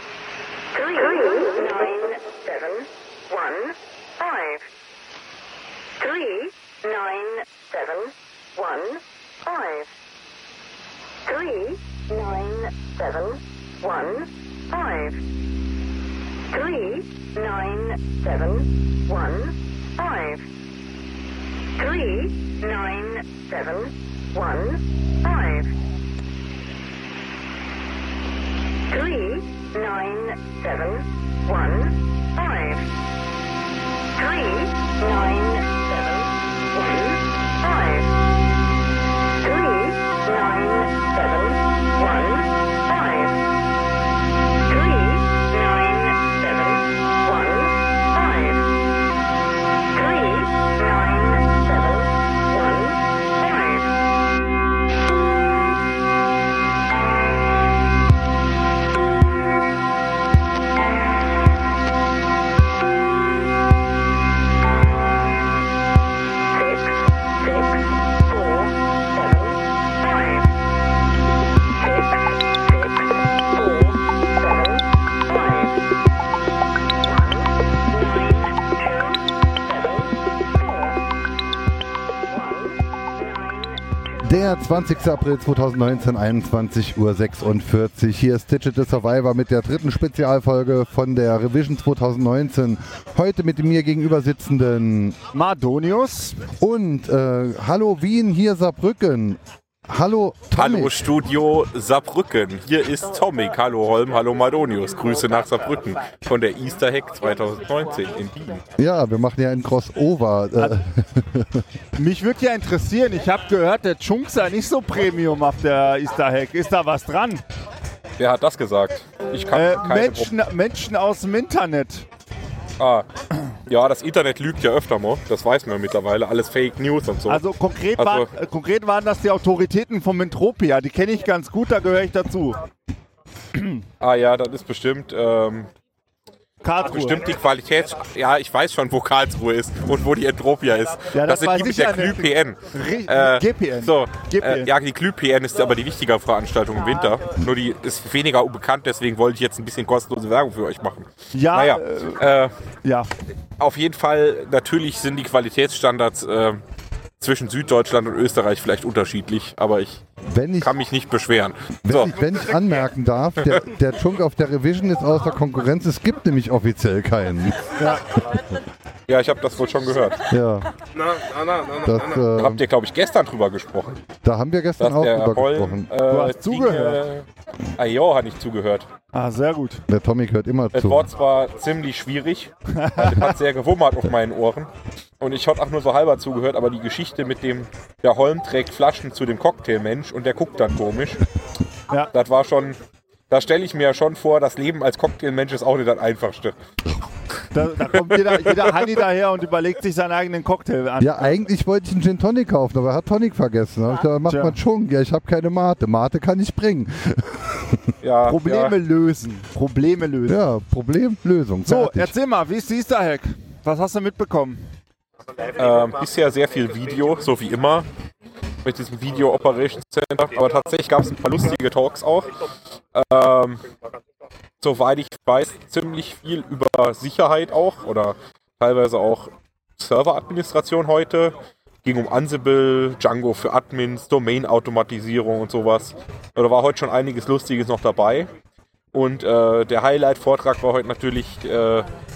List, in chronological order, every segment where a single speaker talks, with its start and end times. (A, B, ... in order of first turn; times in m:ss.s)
0:00.7-0:04.6 A
0:06.0-0:09.9 A
0:11.2-0:15.2 A
0:16.5-0:20.4 A
0:21.8-0:25.7 A
0:28.9-0:32.9 A
0:34.2-0:38.1 A
0:39.4-0:43.4 A
0:44.7-0:48.6 A
0:49.9-0:53.9 A
1:06.5-1:10.5 A
1:11.7-1:15.8 A
1:17.0-1:21.0 A
1:22.3-1:24.3 A
1:24.2-1:35.2 B
1:35.3-1:36.4 C
1:36.6-1:41.1 B
1:40.6-1:48.6 D
1:48.8-1:51.6 B
1:52.0-1:57.4 C
1:58.2-2:00.3 D
1:59.5-2:02.1 C
2:02.8-2:03.1 D
2:03.7-2:07.4 D
2:07.3-2:12.6 C
2:08.0-2:08.3 D
2:13.5-2:13.8 C
2:14.0-2:15.7 D
2:16.6-2:17.2 C
2:16.8-2:32.5 D
2:21.1-2:24.7 C
2:31.3-2:32.2 C
2:32.8-2:33.1 C
2:33.6-2:36.6 D
2:37.2-2:40.0 D
2:40.3-2:40.7 B
2:40.6-2:42.2 D
2:41.8-2:47.7 B
2:47.8-2:48.0 C
2:49.1-2:50.2 D
2:50.3-2:50.7 B
2:51.7-2:52.6 B
2:52.3-2:54.0 D
2:54.2-2:55.9 B
2:54.8-2:58.9 D
2:56.0-2:57.0 C
2:59.1-2:59.8 C
2:59.9-3:01.1 B
3:00.7-3:04.7 D
3:02.7-3:03.3 C
3:05.2-3:11.2 D
3:12.1-3:12.8 D
3:13.3-3:16.6 D
3:17.5-3:21.3 C
3:17.9-3:18.7 D
3:21.0-3:27.9 B
3:24.3-3:24.6 C
3:28.0-3:28.7 D
3:28.2-3:30.4 C
3:30.3-3:32.1 B
3:31.7-3:34.7 C
3:35.6-3:37.9 D
3:38.6-3:42.3 D
3:42.9-3:43.6 D
3:44.6-3:58.3 D
3:58.9-4:01.9 D